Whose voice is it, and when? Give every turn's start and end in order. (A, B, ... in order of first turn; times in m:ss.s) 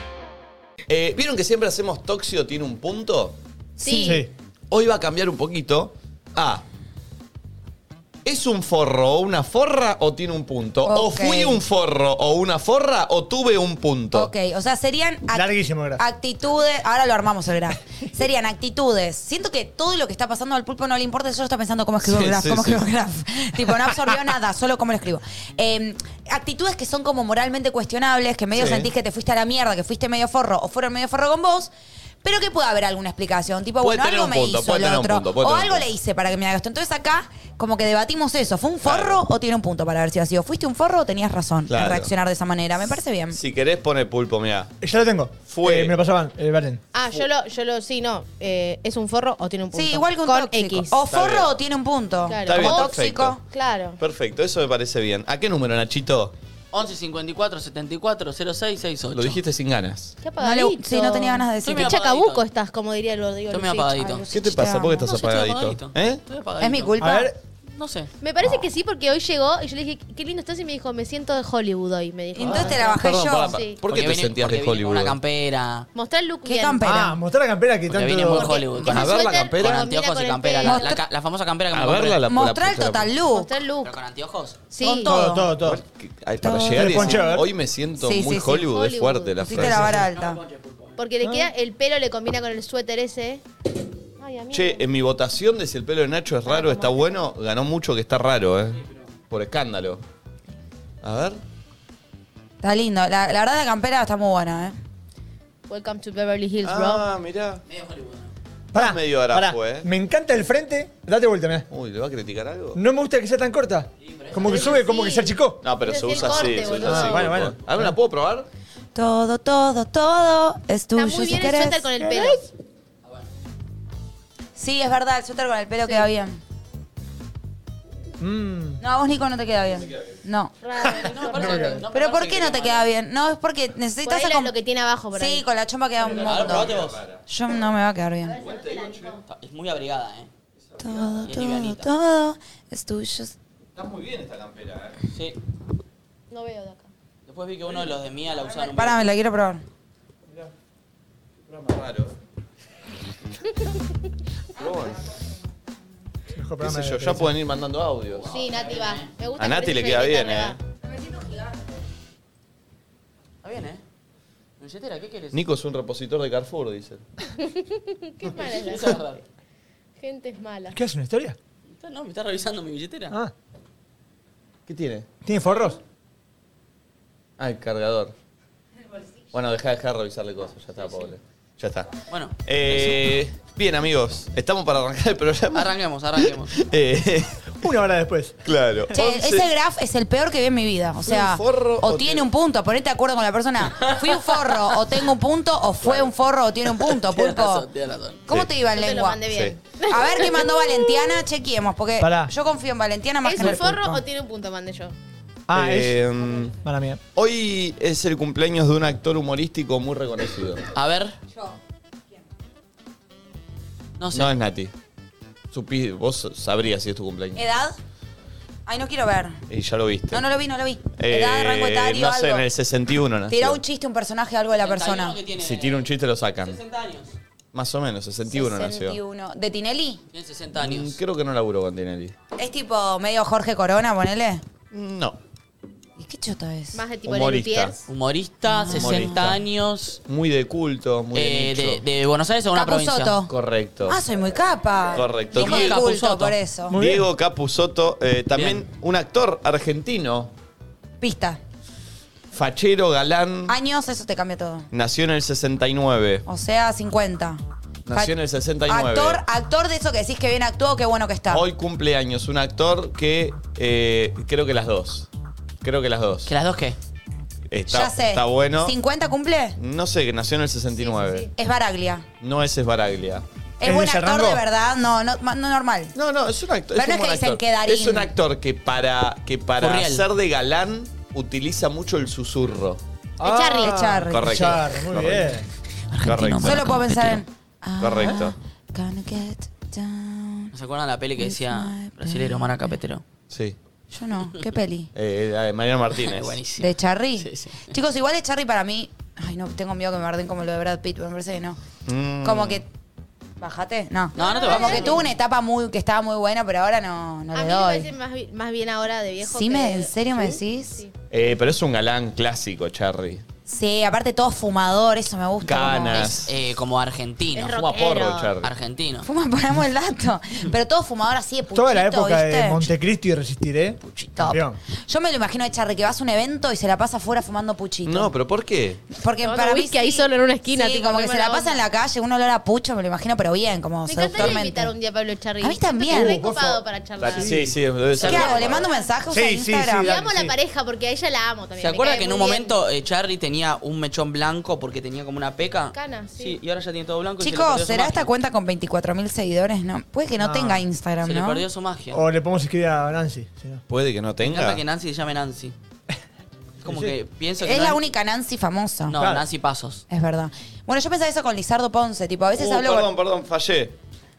0:00.9-0:03.4 A
0:03.8-0:04.2 B
0:03.8-0:04.2 C
0:04.7-0:06.6 A
0:08.2-0:14.3 A
0:10.8-0:11.6 B
0:14.1-0:31.7 B
0:15.3-0:16.0 D
0:22.0-0:22.8 A
0:28.5-0:28.9 A
0:32.2-0:43.4 B
0:33.8-0:35.9 A
0:38.8-0:39.2 A
0:41.7-0:42.1 A
0:43.3-0:44.7 A
0:44.8-0:46.9 D
0:45.4-0:46.0 A
0:46.9-0:51.0 C
0:49.7-0:53.4 B
0:51.1-0:51.5 A
0:52.3-0:54.0 C
0:52.4-0:53.4 A
0:54.0-0:56.4 A
0:56.7-0:59.4 E
0:59.1-1:00.2 A
1:00.2-1:04.1 C
1:00.4-1:02.0 B
1:01.6-1:02.4 E
1:03.5-1:04.2 E
1:04.0-1:05.1 B
1:04.3-1:06.2 A
1:05.0-1:07.1 E
1:06.6-1:07.3 B
1:07.0-1:07.4 D
1:07.7-1:08.1 E
1:08.2-1:13.8 C
1:12.4-1:13.6 B
1:12.4-1:15.2 A
1:13.9-1:15.9 E
1:16.0-1:16.8 C
1:16.4-1:17.2 B
1:16.8-1:18.6 D
1:17.9-1:22.2 E
1:18.3-1:21.0 C
1:18.8-1:19.9 A
1:20.6-1:21.0 B
1:21.7-1:23.1 A
1:22.3-1:23.5 B
1:23.3-1:23.9 C
1:23.8-1:24.6 E
1:24.7-1:25.1 C
1:24.8-1:25.5 B
1:25.0-1:25.8 D
1:25.6-1:30.0 A
1:26.4-1:27.3 B
1:26.7-1:27.5 D
1:28.0-1:28.6 B
1:28.5-1:29.6 C
1:29.4-1:30.4 B
1:29.6-1:30.1 D
1:30.1-1:30.9 E
1:31.0-1:33.4 C
1:31.2-1:31.5 D
1:34.2-1:34.9 C
1:34.5-1:40.0 A
1:36.5-1:37.2 C
1:41.0-1:41.4 A
1:42.6-1:44.8 B
1:45.7-1:47.1 C
1:46.6-1:47.6 A
1:47.7-1:48.3 E
1:48.7-1:51.7 D
1:48.7-1:49.9 A
1:51.7-1:52.8 A
1:52.8-1:55.6 D
1:54.0-1:54.7 E
1:54.4-1:57.3 C
1:55.6-1:58.5 A
1:56.8-1:57.9 D
1:59.0-2:01.9 B
2:01.0-2:02.5 C
2:02.0-2:02.4 D
2:04.6-2:06.4 B
2:05.8-2:06.1 C
2:08.2-2:08.8 D
2:08.8-2:10.5 B
2:10.6-2:11.8 C
2:10.8-2:12.9 E
2:11.2-2:11.8 D
2:11.9-2:14.5 B
2:14.0-2:15.4 C
2:15.1-2:16.7 B
2:16.1-2:17.2 A
2:16.2-2:17.0 E
2:17.3-2:18.4 B
2:18.4-2:19.2 A
2:19.2-2:20.3 E
2:20.7-2:21.3 A
2:20.8-2:23.3 B
2:21.3-2:21.9 E
2:23.8-2:25.0 A
2:26.3-2:26.9 C
2:27.3-2:29.1 E
2:28.5-2:29.6 B
2:31.5-2:32.2 A
2:34.6-2:35.0 A
2:36.3-2:37.3 D
2:36.6-2:38.3 A
2:38.2-2:39.1 E
2:38.3-2:40.6 C
2:39.4-2:40.6 A
2:43.4-2:43.8 E
2:44.6-2:45.4 E
2:45.3-2:47.0 A
2:47.4-2:49.2 C
2:48.3-2:49.2 E
2:50.0-2:50.8 C
2:50.7-2:51.4 D
2:51.8-2:53.2 E
2:54.7-2:55.1 A
2:55.2-2:55.8 D
2:57.4-2:58.1 A
2:59.3-3:01.9 A
3:02.1-3:03.1 E
3:02.4-3:07.4 A
3:05.5-3:06.6 E
3:07.6-3:08.4 D
3:08.4-3:09.5 A
3:09.0-3:17.7 B
3:11.1-3:12.3 A
3:13.8-3:14.4 E
3:15.8-3:16.1 A
3:16.8-3:18.2 E
3:18.3-3:19.2 B
3:18.7-3:21.1 C
3:19.3-3:19.6 A
3:19.9-3:24.0 B
3:22.0-3:22.3 D
3:23.2-3:24.9 C
3:25.5-3:26.0 D
3:25.5-3:26.6 A
3:26.6-3:27.0 D
3:27.2-3:30.7 A
3:30.7-3:31.2 E
3:34.0-3:34.3 E
3:34.1-3:34.7 A
3:35.5-3:37.4 A
3:37.4-3:37.8 B
3:38.7-3:39.4 B
3:39.5-3:40.2 A
3:40.1-3:42.5 B
3:41.0-3:43.6 A
3:43.3-3:45.2 B
3:44.6-3:45.9 E
3:45.4-3:46.6 A
3:46.4-3:47.1 E
3:47.5-3:49.0 A
3:48.3-3:50.0 B
3:50.1-3:51.0 E
3:50.6-3:52.2 A
3:52.4-3:54.4 B
3:54.7-3:55.2 A
3:56.0-3:56.8 B
3:56.7-3:57.8 C
3:57.0-3:57.7 A
3:57.9-4:00.0 E
3:58.4-3:59.3 B
3:58.7-3:59.4 A
4:00.1-4:01.8 A
4:01.1-4:03.2 E
4:02.5-4:03.3 B
4:03.3-4:04.0 A
4:03.9-4:06.8 B
4:04.9-4:05.8 A
4:05.3-4:06.4 E
4:06.7-4:07.1 D
4:06.7-4:10.3 A
4:08.3-4:08.6 E
4:11.0-4:11.4 B
4:12.3-4:13.5 A
4:13.5-4:14.7 B
4:14.7-4:16.2 A
4:16.3-4:17.4 B
4:17.9-4:19.2 A
4:18.7-4:21.4 B
4:21.3-4:25.1 A
4:25.6-4:26.3 A
4:26.3-4:26.8 E
4:27.5-4:28.8 A
4:27.7-4:29.6 B
4:29.6-4:31.3 A
4:30.8-4:31.3 C
4:31.4-4:32.0 B
4:32.2-4:33.2 A
4:33.6-4:36.0 B
4:33.6-4:34.4 D
4:36.0-4:42.8 A
4:36.8-4:38.1 B
4:39.6-4:40.1 E
4:43.2-4:45.4 D
4:43.2-4:43.8 C
4:43.5-4:44.5 B
4:44.0-4:45.4 A
4:45.9-4:47.2 E
4:46.0-4:46.8 A
4:46.4-4:50.5 B
4:47.8-4:48.3 A
4:50.5-4:53.0 E
4:51.2-4:52.8 B
4:53.3-4:53.6 A
4:53.9-4:54.9 B
4:55.0-4:56.4 A
4:55.9-4:57.7 E
4:56.6-5:01.6 B
5:01.9-5:02.6 A
5:02.2-5:02.7 B
5:03.4-5:07.9 B
5:04.2-5:05.1 E
5:04.2-5:05.1 C
5:07.3-5:10.9 C
5:09.2-5:10.8 B
5:11.1-5:13.2 A
5:13.5-5:16.2 B
5:15.4-5:16.3 A
5:16.3-5:17.6 E
5:17.3-5:18.3 C
5:17.4-5:18.5 A
5:18.4-5:19.1 E
5:19.0-5:22.7 B
5:21.5-5:24.6 D
5:23.8-5:24.2 E
5:24.2-5:28.1 B
5:27.8-5:28.8 A
5:28.9-5:34.7 B
5:29.2-5:31.6 C
5:33.9-5:37.4 C
5:35.4-5:36.2 B
5:35.9-5:37.5 D
5:37.0-5:38.7 A
5:38.0-5:38.4 E
5:38.0-5:38.9 C
5:38.0-5:39.9 B
5:39.1-5:40.3 D
5:39.8-5:42.5 C
5:41.6-5:48.1 E
5:45.7-5:46.4 C
5:47.2-5:51.4 B
5:50.2-5:50.6 D
5:51.0-5:52.0 E
5:51.9-5:53.6 D
5:53.7-5:54.6 A
5:54.2-5:55.6 E
5:56.6-5:57.8 E
5:56.6-5:56.9 D
5:57.4-5:59.0 B
5:58.9-5:59.8 E
5:59.9-6:02.9 B
6:02.4-6:03.7 A